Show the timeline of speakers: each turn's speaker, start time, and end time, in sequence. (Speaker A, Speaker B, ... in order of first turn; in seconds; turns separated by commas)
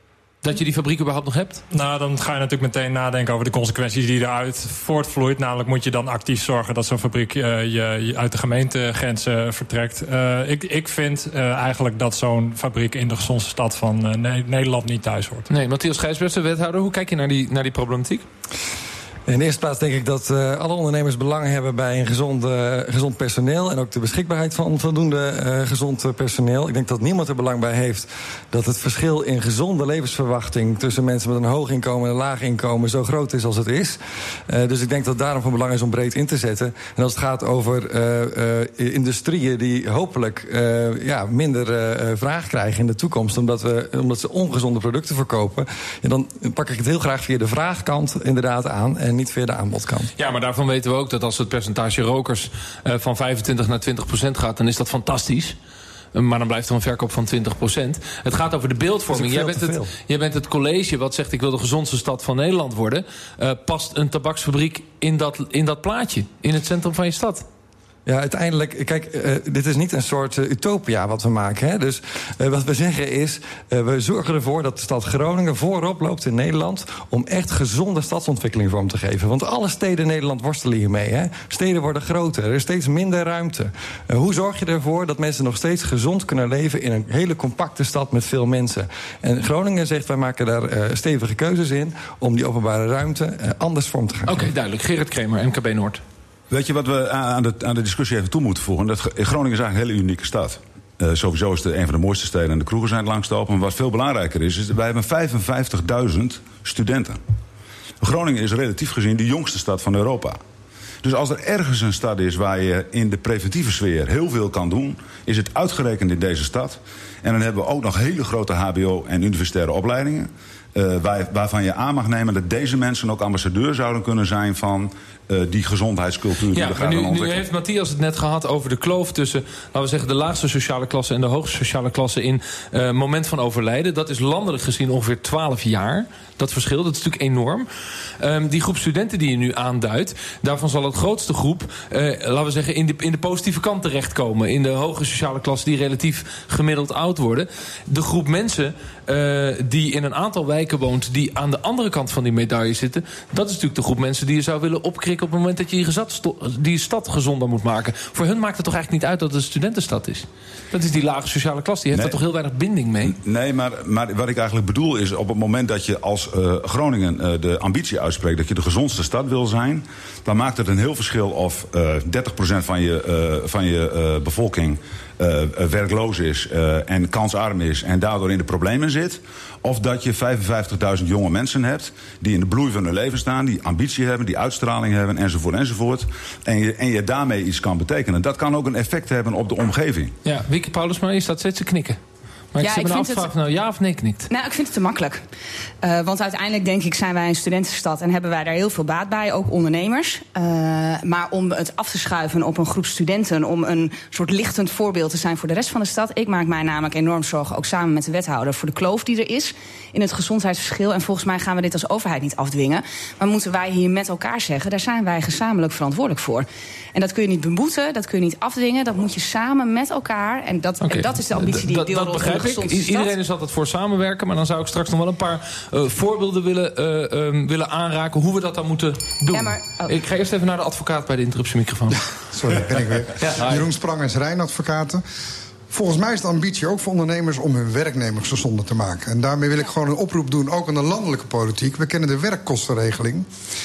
Speaker A: 0.4-1.6, Speaker B: 1.7-15.5, Speaker A: 15.5-18.2, Speaker C: 19.3-50.1, Speaker A: 50.2-55.6, Speaker A: 56.1-67.5, Speaker C: 59.1-59.9, Speaker C: 68.1-94.5, Speaker A: 94.3-96.0, Speaker D: 96.5-107.2, Speaker D: 108.0-110.4, Speaker D: 111.0-127.5, Speaker A: 126.5-137.7, Speaker A: 138.2-163.2, Speaker D: 161.9-162.2, Speaker D: 163.1-190.1, Speaker A: 190.2-192.0, Speaker A: 192.5-194.3, Speaker E: 192.6-193.3, Speaker E: 194.3-195.2, Speaker E: 195.8-223.1, Speaker A: 220.8-232.0, Speaker E: 229.3-229.9, Speaker F: 232.3-235.0, Speaker A: 233.2-233.7, Speaker F: 235.7-243.3